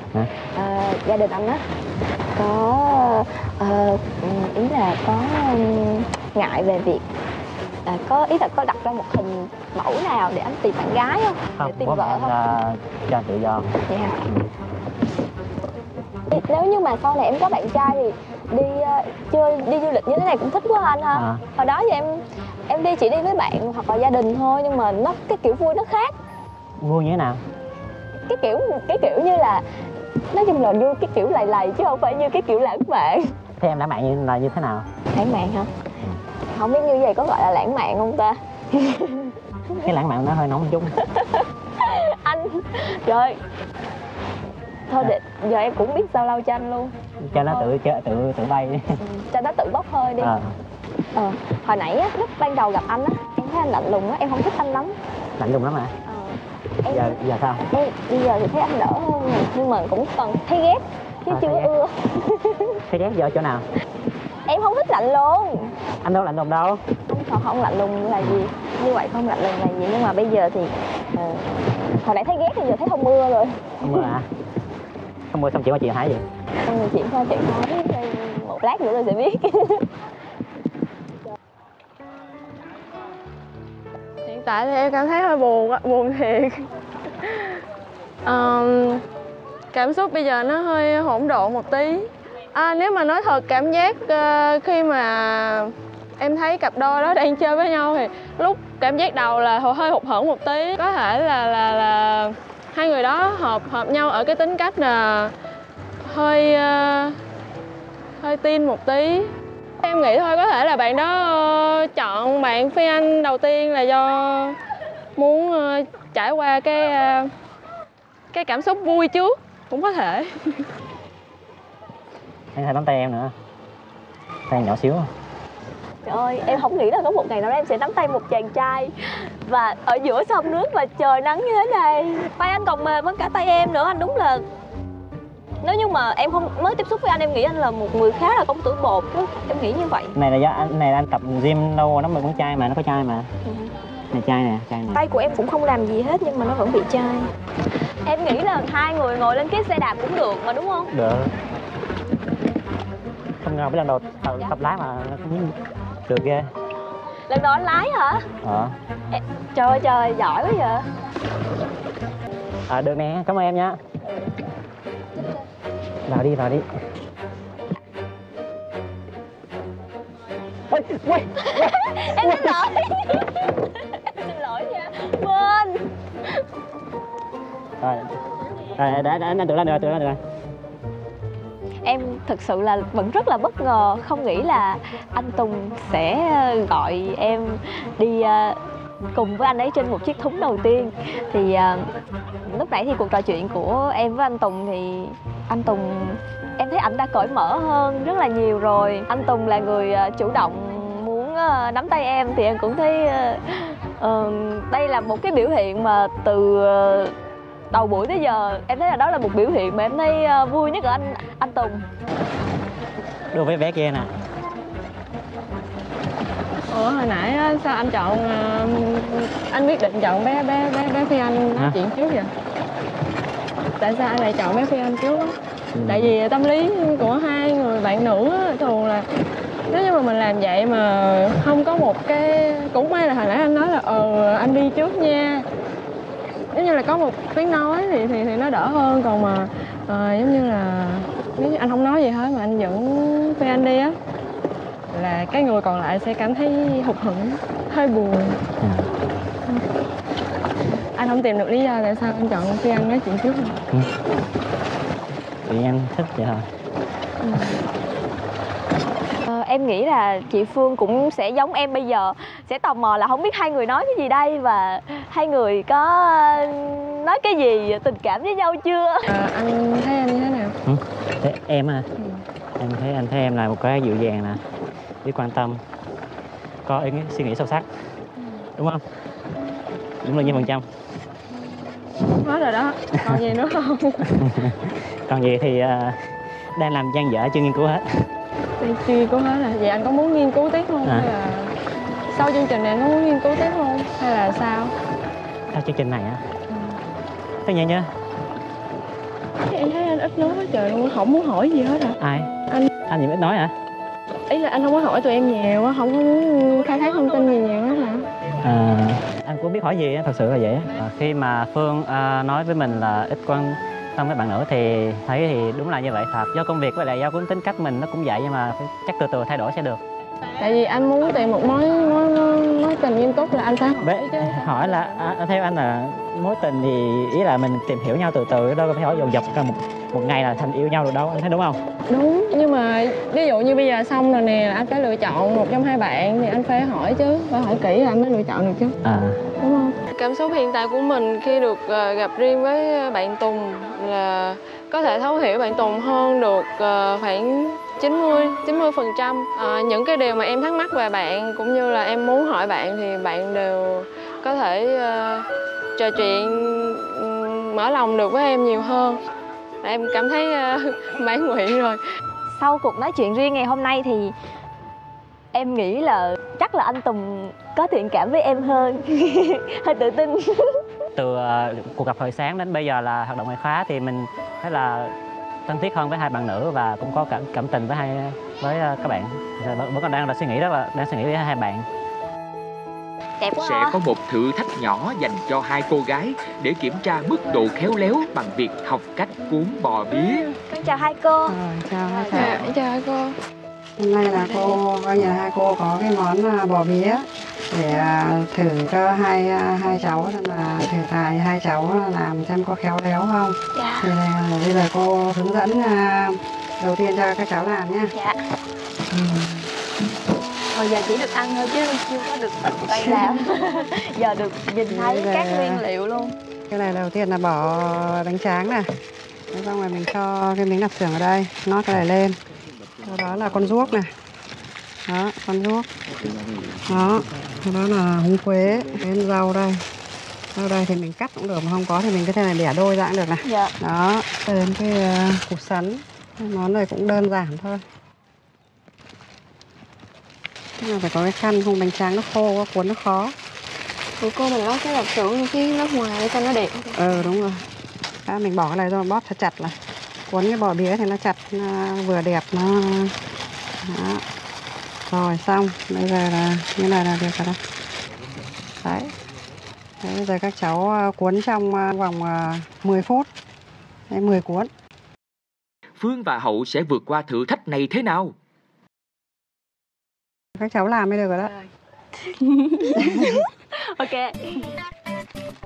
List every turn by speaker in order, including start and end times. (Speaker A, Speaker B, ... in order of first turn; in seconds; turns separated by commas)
Speaker A: 0.6-1.6, Speaker A: 2.3-7.1, Speaker A: 7.9-12.3, Speaker B: 11.6-13.8, Speaker A: 13.9-14.2, Speaker A: 16.3-26.1, Speaker B: 21.1-21.4, Speaker B: 26.8-27.4, Speaker A: 28.3-29.6, Speaker A: 30.3-33.3, Speaker B: 33.6-34.9, Speaker A: 35.1-35.7, Speaker A: 36.5-39.4, Speaker B: 39.8-40.9, Speaker A: 41.0-43.4, Speaker A: 44.9-46.9, Speaker B: 47.2-49.0, Speaker A: 49.0-50.3, Speaker B: 50.2-50.6, Speaker A: 51.1-55.0, Speaker B: 55.4-55.9, Speaker A: 56.1-57.2, Speaker B: 56.9-57.6, Speaker A: 57.7-62.8, Speaker B: 61.3-61.7, Speaker B: 62.9-63.6, Speaker A: 64.5-65.7, Speaker B: 66.0-66.8, Speaker A: 67.1-73.9, Speaker B: 73.8-74.3, Speaker B: 75.3-76.2, Speaker A: 76.6-79.9, Speaker C: 84.2-86.7, Speaker C: 87.2-87.6, Speaker C: 88.2-89.0, Speaker C: 89.7-105.3, Speaker C: 106.0-107.2, Speaker C: 108.2-114.6, Speaker C: 115.2-117.3, Speaker C: 118.3-120.7, Speaker B: 122.5-123.3, Speaker B: 124.5-125.1, Speaker A: 126.0-128.9, Speaker A: 129.4-134.4, Speaker A: 135.6-140.2, Speaker B: 140.2-143.3, Speaker A: 143.4-143.7, Speaker B: 144.1-145.0, Speaker A: 144.9-147.3, Speaker A: 148.1-150.9, Speaker B: 150.9-151.3, Speaker B: 153.4-156.5, Speaker A: 157.3-158.3, Speaker B: 158.4-158.8, Speaker A: 159.1-160.9, Speaker B: 162.7-163.8, Speaker B: 166.1-166.7, Speaker B: 170.7-172.6, Speaker A: 171.4-175.9, Speaker B: 177.8-178.1, Speaker B: 178.8-180.2, Speaker A: 181.8-188.6, Speaker A: 189.1-191.9, Speaker A: 192.5-207.1, Speaker A: 207.7-211.9, Speaker B: 213.3-214.1, Speaker C: 216.7-222.3, Speaker C: 223.8-229.1, Speaker B: 225.8-226.1, Speaker C: 229.7-235.5, Speaker C: 236.5-243.9, Speaker C: 244.9-248.4, Speaker B: 248.6-248.9, Speaker C: 251.0-253.6, Speaker B: 255.4-256.5, Speaker A: 259.3-269.1, Speaker C: 269.1-270.5, Speaker B: 270.6-271.9, Speaker B: 272.6-274.4, Speaker B: 275.0-275.6, Speaker B: 276.7-277.7, Speaker B: 278.6-278.8, Speaker B: 280.0-280.7, Speaker C: 282.1-284.1, Speaker B: 284.1-288.0, Speaker C: 288.6-291.5, Speaker C: 292.1-294.7, Speaker B: 295.5-296.2, Speaker B: 297.4-297.9, Speaker C: 299.5-302.0, Speaker B: 302.0-302.3, Speaker B: 302.9-303.6, Speaker C: 304.3-308.1, Speaker B: 308.4-319.8, Speaker C: 320.4-325.0, Speaker B: 323.8-331.6, Speaker C: 331.9-338.8, Speaker B: 338.8-339.2, Speaker C: 339.4-355.3, Speaker C: 355.8-359.0, Speaker C: 359.6-361.8, Speaker A: 362.3-364.1, Speaker A: 365.3-370.6, Speaker B: 371.0-374.9, Speaker B: 375.5-381.7, Speaker A: 383.2-383.8, Speaker D: 383.4-390.3, Speaker A: 390.5-391.4, Speaker E: 391.3-392.5, Speaker A: 391.9-392.4, Speaker C: 392.1-393.2, Speaker E: 393.8-407.9, Speaker C: 394.2-394.5, Speaker A: 403.6-403.9, Speaker A: 407.9-408.2, Speaker E: 408.9-409.5, Speaker A: 410.5-416.1, Speaker E: 414.7-415.6, Speaker E: 416.5-418.7, Speaker E: 419.3-422.2, Speaker E: 422.8-423.9, Speaker E: 424.9-425.7, Speaker E: 426.7-429.6, Speaker E: 430.4-437.6, Speaker A: 433.2-433.5, Speaker E: 440.6-443.1, Speaker C: 444.0-446.8, Speaker E: 446.8-447.4, Speaker E: 448.1-449.6, Speaker E: 450.1-453.0, Speaker E: 453.6-454.0, Speaker E: 454.9-457.4, Speaker E: 458.6-458.9, Speaker E: 459.8-463.1, Speaker E: 463.9-464.5, Speaker D: 465.8-468.1, Speaker E: 470.4-471.4, Speaker A: 472.1-474.5, Speaker E: 472.8-473.1